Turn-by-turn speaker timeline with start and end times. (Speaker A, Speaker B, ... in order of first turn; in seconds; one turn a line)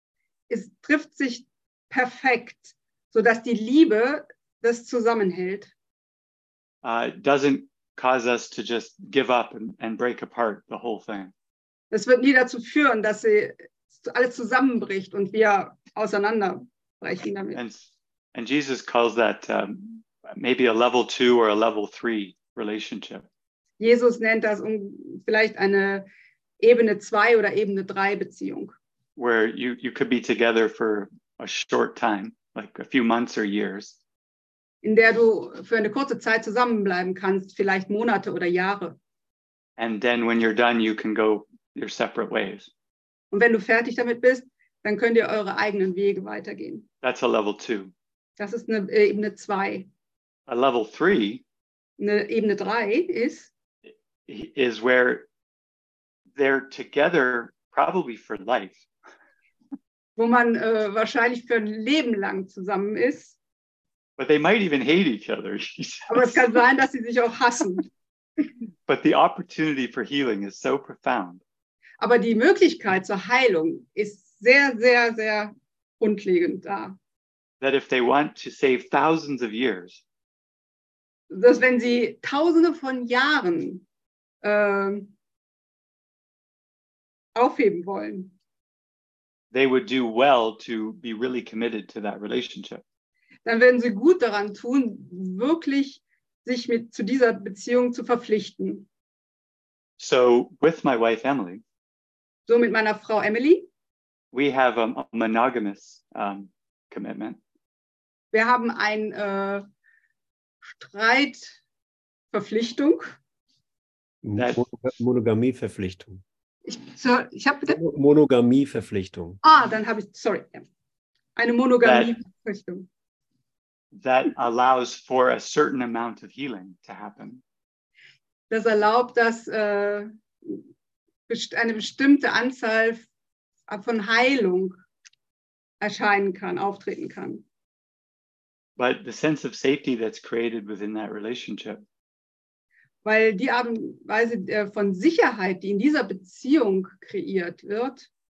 Speaker A: 0.5-5.7
Speaker B: 6.8-11.3
Speaker A: 11.9-17.6
Speaker B: 17.5-23.2
Speaker A: 23.8-26.0
Speaker A: 26.6-28.7
Speaker B: 29.2-34.0
Speaker A: 34.8-39.0
Speaker B: 39.8-42.7
Speaker A: 43.3-46.8
Speaker B: 47.0-47.9
Speaker A: 48.4-49.9
Speaker B: 50.5-51.4
Speaker A: 52.0-53.5
Speaker B: 54.3-55.2
Speaker B: 56.4-58.8
Speaker A: 60.2-63.4
Speaker B: 64.2-66.5
Speaker A: 66.1-67.9
Speaker B: 68.9-71.4
Speaker A: 72.0-77.0
Speaker B: 77.6-80.0
Speaker A: 81.3-83.8
Speaker A: 84.4-85.1
Speaker A: 87.3-88.3
Speaker B: 89.5-92.8
Speaker A: 93.5-98.9
Speaker B: 100.0-101.6
Speaker A: 102.5-103.7
Speaker B: 104.3-107.4
Speaker A: 108.3-109.6
Speaker A: 110.8-111.6
Speaker A: 112.3-113.1
Speaker C: 114.2-116.2
Speaker B: 114.3-114.6
Speaker A: 116.7-117.8
Speaker C: 117.7-119.4
Speaker A: 119.4-120.6
Speaker A: 121.3-122.9
Speaker B: 121.8-122.1
Speaker B: 123.9-127.4
Speaker A: 128.5-130.6
Speaker A: 131.3-133.1
Speaker A: 133.7-134.8
Speaker A: 135.8-137.4
Speaker B: 138.8-141.8
Speaker A: 143.0-148.1